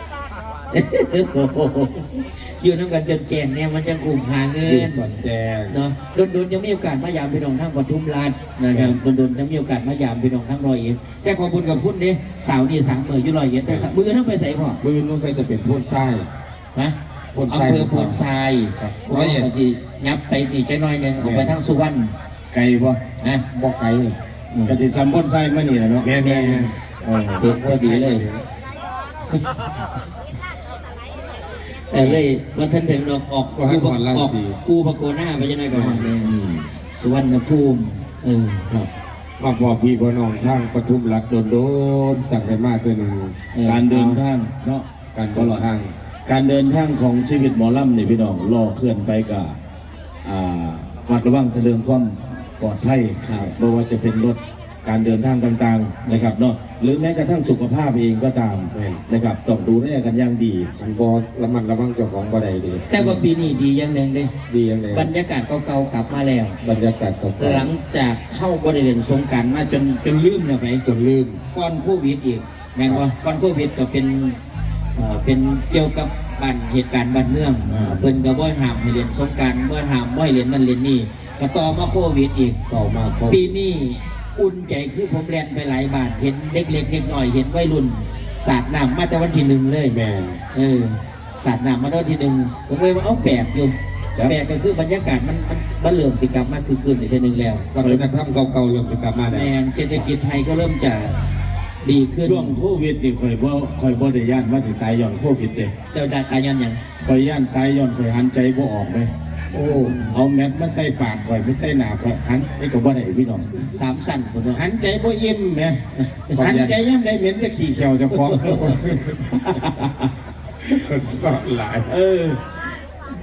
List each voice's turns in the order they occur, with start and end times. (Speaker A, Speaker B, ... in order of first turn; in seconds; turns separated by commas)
Speaker A: 0.7-5.0, Speaker B: 4.6-5.8, Speaker A: 5.7-14.8, Speaker B: 8.7-9.0, Speaker B: 14.8-16.3, Speaker B: 17.3-18.2, Speaker A: 17.5-22.1, Speaker B: 18.8-19.5, Speaker B: 21.2-21.6, Speaker C: 22.5-23.0, Speaker B: 23.5-24.1, Speaker A: 24.5-24.8, Speaker C: 24.6-26.1, Speaker B: 26.0-26.7, Speaker A: 26.2-26.7, Speaker C: 27.0-27.4, Speaker B: 27.4-28.4, Speaker A: 27.4-28.2, Speaker A: 31.9-36.3, Speaker B: 31.9-32.2, Speaker B: 33.5-34.6, Speaker B: 35.7-36.1, Speaker C: 36.2-36.7, Speaker A: 36.9-38.9, Speaker B: 39.4-43.4, Speaker A: 43.5-43.9, Speaker C: 43.6-45.6, Speaker B: 43.9-44.2, Speaker B: 45.1-45.9, Speaker C: 46.2-49.5, Speaker C: 50.2-60.7, Speaker A: 53.2-53.5, Speaker B: 56.1-56.3, Speaker B: 58.7-59.0, Speaker B: 60.8-63.3, Speaker A: 62.9-64.3, Speaker B: 64.5-65.1, Speaker A: 64.9-66.6, Speaker B: 66.6-67.7, Speaker A: 67.4-70.8, Speaker B: 70.8-71.4, Speaker A: 71.5-74.4, Speaker A: 75.0-82.6, Speaker C: 77.6-78.1, Speaker B: 82.7-83.5, Speaker A: 83.3-90.0, Speaker B: 89.9-90.4, Speaker A: 90.5-97.7, Speaker B: 97.7-100.1, Speaker C: 97.8-98.1, Speaker A: 99.3-101.2, Speaker A: 101.8-102.5, Speaker C: 102.2-105.7, Speaker A: 105.9-106.8, Speaker C: 107.0-109.1, Speaker B: 109.5-110.2, Speaker A: 109.6-110.2, Speaker C: 110.1-113.7, Speaker A: 113.7-114.6, Speaker C: 114.5-115.8, Speaker A: 116.0-116.3, Speaker B: 116.3-116.7, Speaker C: 116.4-120.1, Speaker B: 118.3-119.3, Speaker B: 120.7-121.9, Speaker C: 121.8-122.4